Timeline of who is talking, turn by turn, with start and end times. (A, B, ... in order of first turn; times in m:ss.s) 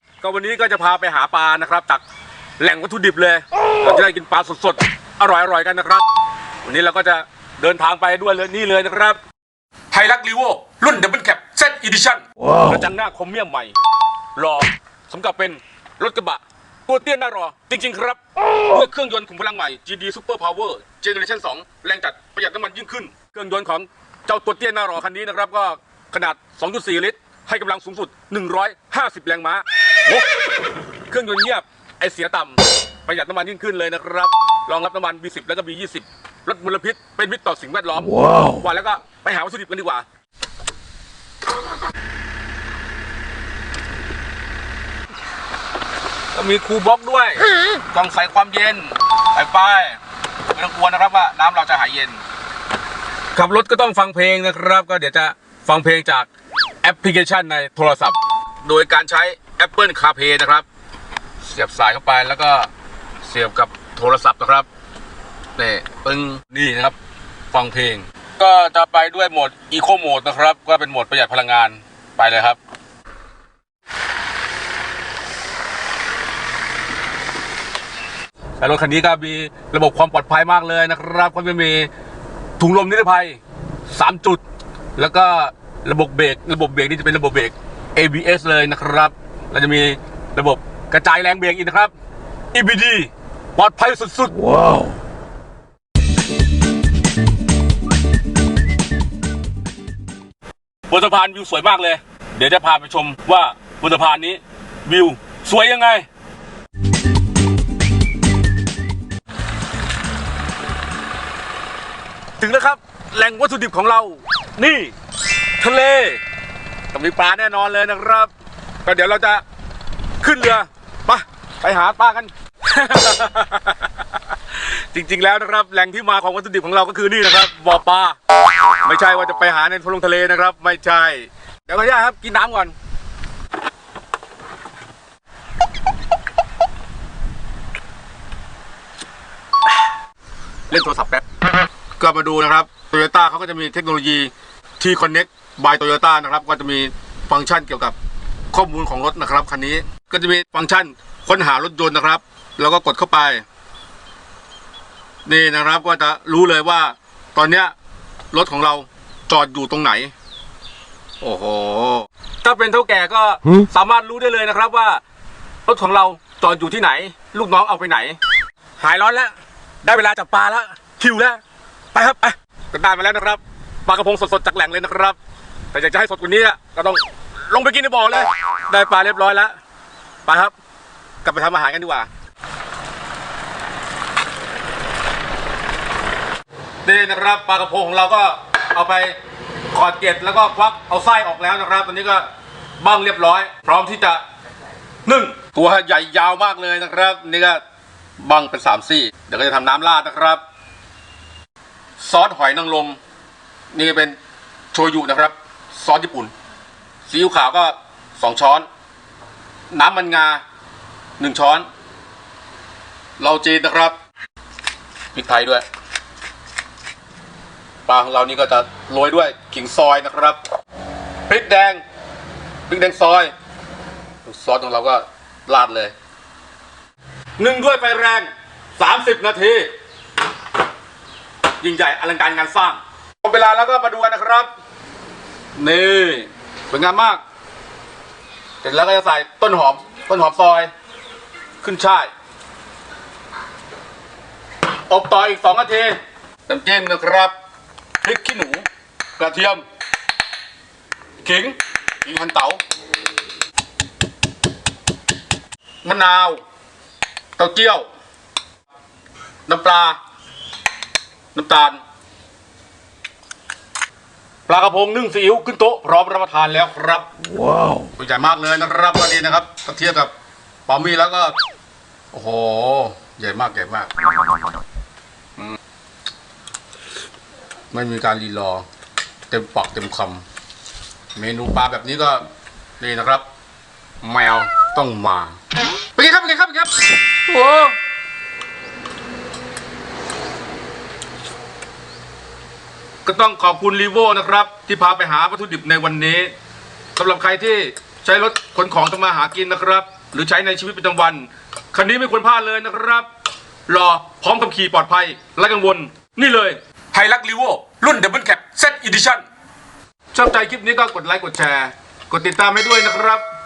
0:00.2-0:02.0 A
0:02.6-0:06.1 A
0:06.6-0:09.2 A
0:09.9-0:13.7 A
0:14.4-0:30.2 A
0:31.1-0:40.0 A
0:46.3-0:50.0 A
0:50.5-0:52.2 A
0:53.3-0:56.3 A
0:56.8-1:00.6 A
1:01.4-1:02.7 A
1:03.2-1:04.7 A
1:05.6-1:07.0 A
1:07.5-1:12.6 A
1:18.6-1:21.9 A
1:22.6-1:24.4 A
1:25.0-1:31.9 A
1:32.5-1:34.6 A
1:40.9-1:46.0 A
1:52.4-1:54.9 A
1:55.6-1:56.2 A
1:56.9-1:58.3 A
1:58.8-1:59.4 A
2:00.2-2:03.9 A
2:04.6-2:08.2 A
2:08.8-2:12.7 A
2:20.7-2:21.2 A
2:22.0-2:27.9 A
2:28.5-2:33.4 A
2:35.2-2:37.7 A
2:38.3-2:40.1 A
2:41.2-2:45.0 A
2:45.6-2:48.2 A
2:48.8-2:51.4 A
2:51.9-2:55.2 A
2:55.7-2:59.5 A
3:00.2-3:00.5 A
3:01.2-3:02.1 A
3:06.8-3:09.2 A
3:09.7-3:12.3 A
3:12.8-3:14.2 A
3:15.0-3:17.6 A
3:18.2-3:20.4 A
3:22.0-3:23.0 A
3:23.7-3:24.2 A
3:24.7-3:26.3 A
3:27.0-3:28.6 A
3:29.7-3:30.4 A
3:31.2-3:31.7 A
3:33.2-3:34.0 A
3:35.1-3:35.6 A
3:37.8-3:40.4 A
3:41.3-3:41.8 A
3:42.7-3:43.3 A
3:44.2-3:45.9 A
3:47.4-3:49.7 A
3:51.6-3:54.5 A
3:55.5-3:57.2 A
3:58.6-4:00.7 A
4:01.6-4:02.1 A
4:04.9-4:07.3 A
4:08.0-4:08.6 A
4:09.2-4:09.6 A
4:11.2-4:12.6 A
4:15.8-4:16.4 A
4:17.4-4:17.8 A
4:19.5-4:20.0 A
4:21.3-4:21.8 A
4:24.5-4:27.1 A
4:27.8-4:30.1 A
4:30.7-4:31.4 A
4:32.1-4:34.1 A
4:37.7-4:38.6 A
4:39.3-4:40.2 A
4:41.1-4:42.2 A
4:42.8-4:43.2 A
4:44.0-4:45.4 A
4:45.9-4:47.8 A
4:53.0-4:56.3 A
4:57.0-5:03.1 A
5:03.7-5:09.2 A
5:10.1-5:13.2 A